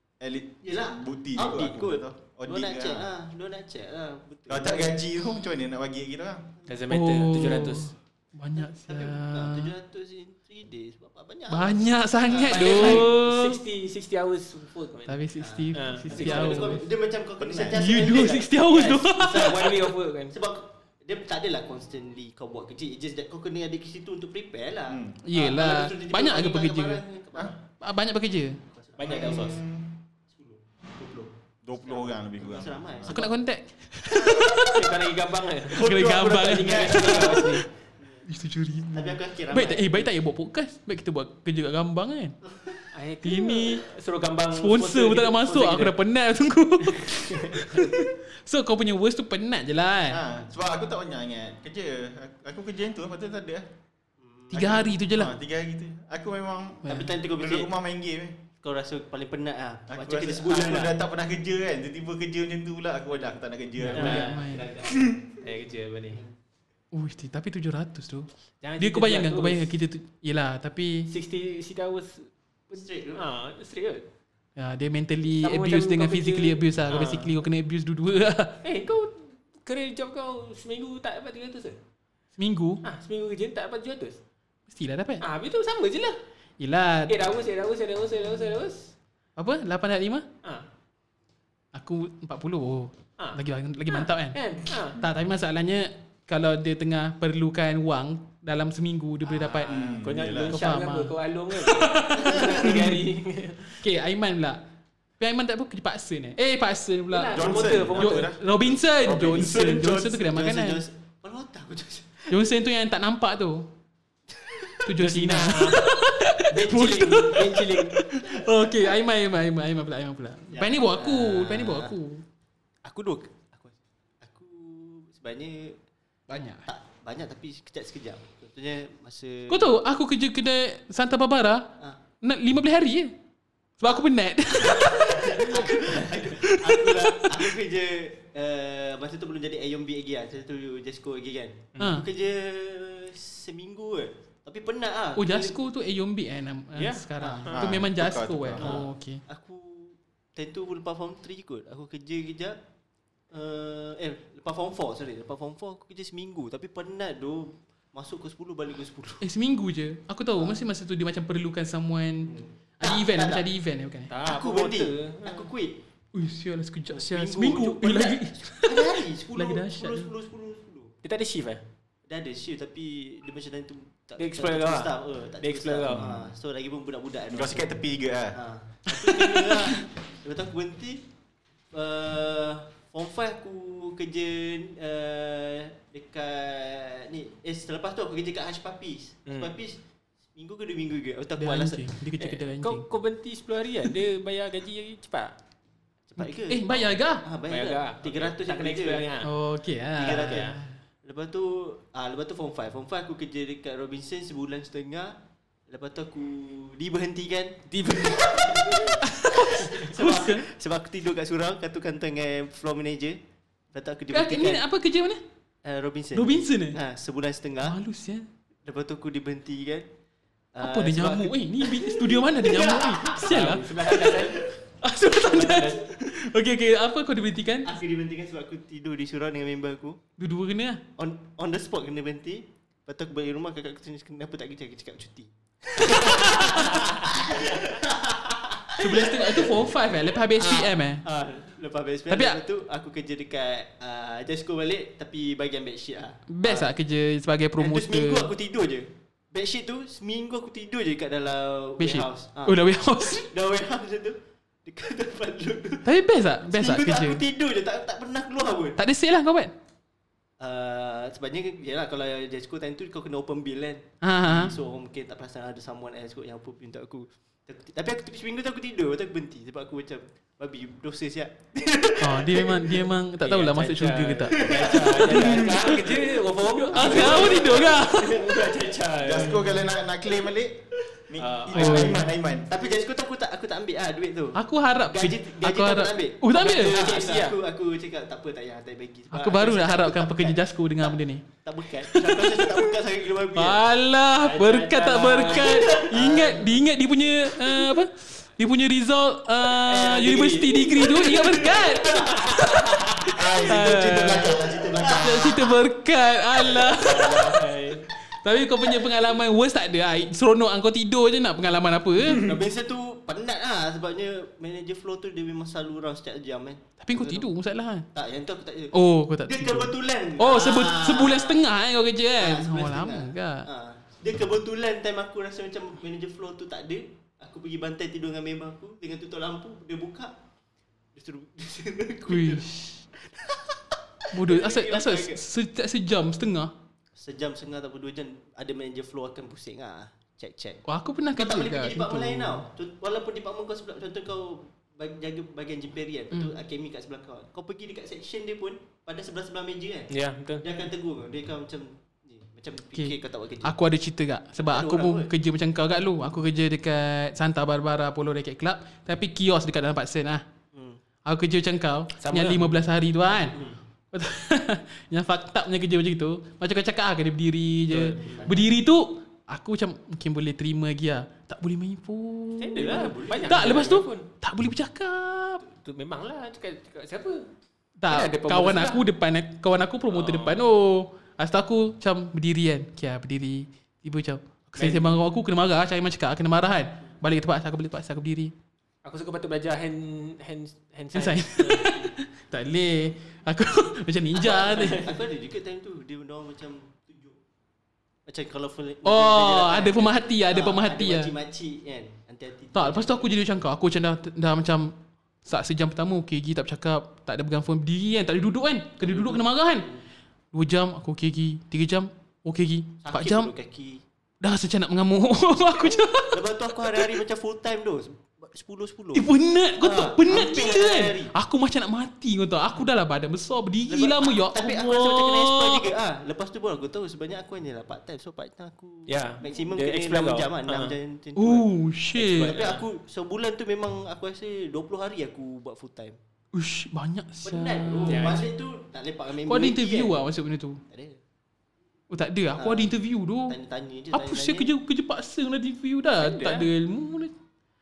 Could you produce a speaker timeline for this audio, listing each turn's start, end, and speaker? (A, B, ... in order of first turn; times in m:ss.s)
0:00.2-0:03.1 A
0:00.6-0:05.0 B
0:04.5-0:06.5 A
0:06.7-0:07.9 C
0:06.9-0:09.7 D
0:08.6-0:13.1 B
0:11.5-0:13.6 D
0:12.3-0:15.2 C
0:15.1-0:16.8 D
0:15.4-0:27.6 B
0:15.7-0:16.8 C
0:17.4-0:18.0 A
0:17.7-0:19.7 D
0:19.2-0:20.4 C
0:24.9-0:25.2 A
0:25.2-0:27.0 D
0:27.8-0:28.6 D
0:28.7-0:29.6 B
0:29.0-0:29.6 C
0:29.0-0:30.0 A
0:30.3-0:33.3 B
0:31.6-0:33.2 A
0:33.1-0:34.8 D
0:34.6-0:37.6 C
0:35.7-0:37.6 A
0:35.7-0:37.5 D
0:38.2-0:42.4 D
0:38.9-0:40.1 B
0:42.5-0:42.8 B
0:42.9-0:45.9 C
0:43.2-0:43.8 D
0:44.5-0:50.2 D
0:46.8-0:47.7 C
0:50.1-0:53.6 A
0:54.2-0:54.7 B
0:54.5-0:55.3 D
0:54.5-0:58.4 A
0:56.8-0:57.1 D
0:56.9-0:57.7 B
0:58.6-1:01.0 B
0:59.9-1:05.2 A
1:03.8-1:04.7 D
1:03.9-1:06.2 C
1:06.9-1:08.3 D
1:08.6-1:09.7 C
1:08.8-1:11.1 D
1:11.1-1:14.0 C
1:12.7-1:13.3 B
1:14.6-1:18.6 D
1:15.4-1:17.3 C
1:18.6-1:21.8 C
1:22.4-1:22.8 D
1:22.8-1:24.2 C
1:24.7-1:25.2 D
1:25.2-1:26.2 C
1:26.6-1:27.2 D
1:27.1-1:28.9 C
1:29.4-1:30.2 D
1:31.7-1:34.4 D
1:33.9-1:35.0 C
1:34.9-1:43.0 D
1:39.5-1:40.6 A
1:40.0-1:43.8 C
1:42.2-1:42.8 B
1:43.8-1:44.6 D
1:45.2-1:50.8 D
1:47.1-1:48.3 C
1:47.3-1:50.2 A
1:49.3-1:52.4 B
1:52.3-1:53.7 D
1:54.3-1:54.8 B
1:54.8-2:02.2 D
1:55.0-1:58.0 C
1:58.2-1:58.9 B
2:00.5-2:01.9 B
2:02.8-2:05.8 B
2:06.3-2:06.7 D
2:06.6-2:09.8 B
2:09.5-2:11.7 D
2:12.2-2:13.1 D
2:13.8-2:17.5 D
2:14.6-2:25.6 B
2:21.8-2:22.1 D
2:25.2-2:29.2 D
2:26.7-2:27.6 C
2:27.2-2:27.5 B
2:27.5-2:28.8 A
2:28.6-2:32.6 B
2:33.3-2:39.2 B
2:39.2-2:44.1 D
2:42.2-2:43.4 B
2:44.1-2:45.5 C
2:44.2-2:45.8 B
2:46.1-2:50.1 D
2:46.9-2:50.9 B
2:51.0-2:51.6 C
2:52.1-2:57.7 B
2:54.2-2:56.0 C
2:55.8-2:56.3 A
2:57.3-2:58.4 A
2:58.3-3:01.0 B
2:58.9-2:59.8 D
3:01.7-3:09.8 B
3:09.3-3:09.5 C
3:10.3-3:11.8 B
3:11.4-3:12.8 D
3:12.2-3:15.3 C
3:16.1-3:19.0 B
3:16.2-3:17.2 D
3:17.5-3:19.3 C
3:19.2-3:20.7 D
3:19.9-3:25.1 B
3:20.0-3:20.5 C
3:25.7-3:33.2 B
3:27.7-3:28.2 C
3:29.0-3:30.5 D
3:33.7-3:34.6 B
3:34.1-3:35.2 D
3:35.6-3:37.8 B
3:36.1-3:36.8 D
3:37.6-3:38.2 D
3:38.6-3:39.9 B
3:40.5-3:44.4 B
3:40.6-3:47.7 D
3:43.1-3:44.4 C
3:45.2-3:45.7 C
3:47.6-3:50.0 B
3:50.2-3:50.8 D
3:51.0-3:59.8 B
3:55.8-3:56.8 D
3:58.8-4:01.0 D
4:00.4-4:06.7 B
4:02.1-4:02.4 D
4:06.3-4:08.3 D
4:07.6-4:12.6 B
4:11.8-4:13.3 D
4:13.2-4:15.9 B
4:15.8-4:17.2 D
4:16.5-4:18.8 B
4:18.8-4:19.5 D
4:20.4-4:32.8 B
4:24.0-4:24.5 D
4:32.0-4:35.8 D
4:33.2-4:39.6 C
4:34.3-4:35.7 B
4:36.7-4:38.7 B
4:36.7-4:38.2 D
4:39.0-4:42.5 A
4:41.2-4:42.0 C
4:41.5-4:42.0 D
4:41.6-4:42.0 B
4:42.5-4:53.6 B
4:44.4-4:46.8 D
4:46.3-4:47.4 C
4:49.1-4:51.2 D
4:51.8-4:52.7 D
4:53.3-5:04.3 D
4:54.2-4:55.8 C
4:55.3-4:56.5 B
4:59.6-5:02.8 C
5:01.2-5:05.5 B
5:03.1-5:05.2 A
5:04.9-5:07.4 D
5:06.7-5:07.8 C
5:08.1-5:12.3 D
5:12.1-5:17.3 B
5:16.8-5:17.9 D
5:17.9-5:21.4 B
5:18.7-5:23.4 D
5:22.2-5:30.1 B
5:30.9-5:32.5 B
5:32.1-5:32.8 D
5:33.0-5:35.2 B
5:34.1-5:36.5 D
5:37.0-5:40.6 B
5:40.6-5:42.4 D
5:41.1-5:49.9 B
5:49.9-5:50.4 C
5:50.4-5:53.5 B
5:52.7-6:00.2 D
5:54.4-5:55.1 B
6:00.5-6:00.8 B
6:01.0-6:03.3 D
6:02.0-6:02.5 C
6:03.9-6:15.4 D
6:07.7-6:08.4 C
6:08.0-6:08.4 B
6:12.4-6:14.0 C
6:12.6-6:13.6 B
6:15.4-6:17.2 C
6:17.8-6:28.3 D
6:17.9-6:18.8 C
6:19.9-6:20.4 C
6:24.6-6:24.9 C
6:28.8-6:31.9 C
6:30.9-6:34.8 D
6:34.1-6:37.2 B
6:34.6-6:34.9 C
6:38.0-6:43.1 B
6:38.8-6:41.1 D
6:42.5-6:44.7 D
6:45.2-6:49.7 D
6:48.9-6:49.8 B
6:50.3-6:53.3 D
6:52.8-6:53.8 B
6:54.2-6:56.9 D
6:55.6-6:59.1 B
6:58.9-7:05.7 D
6:59.6-7:01.1 B
7:03.7-7:16.0 B
7:08.9-7:10.8 C
7:11.2-7:12.4 D
7:12.1-7:12.6 C
7:16.3-7:18.3 D
7:17.2-7:19.9 B
7:17.9-7:18.2 C
7:19.2-7:20.6 D
7:20.7-7:21.0 B
7:21.9-7:23.4 D
7:22.4-7:22.7 B
7:23.3-7:24.5 B
7:23.9-7:27.1 D
7:26.0-7:26.5 C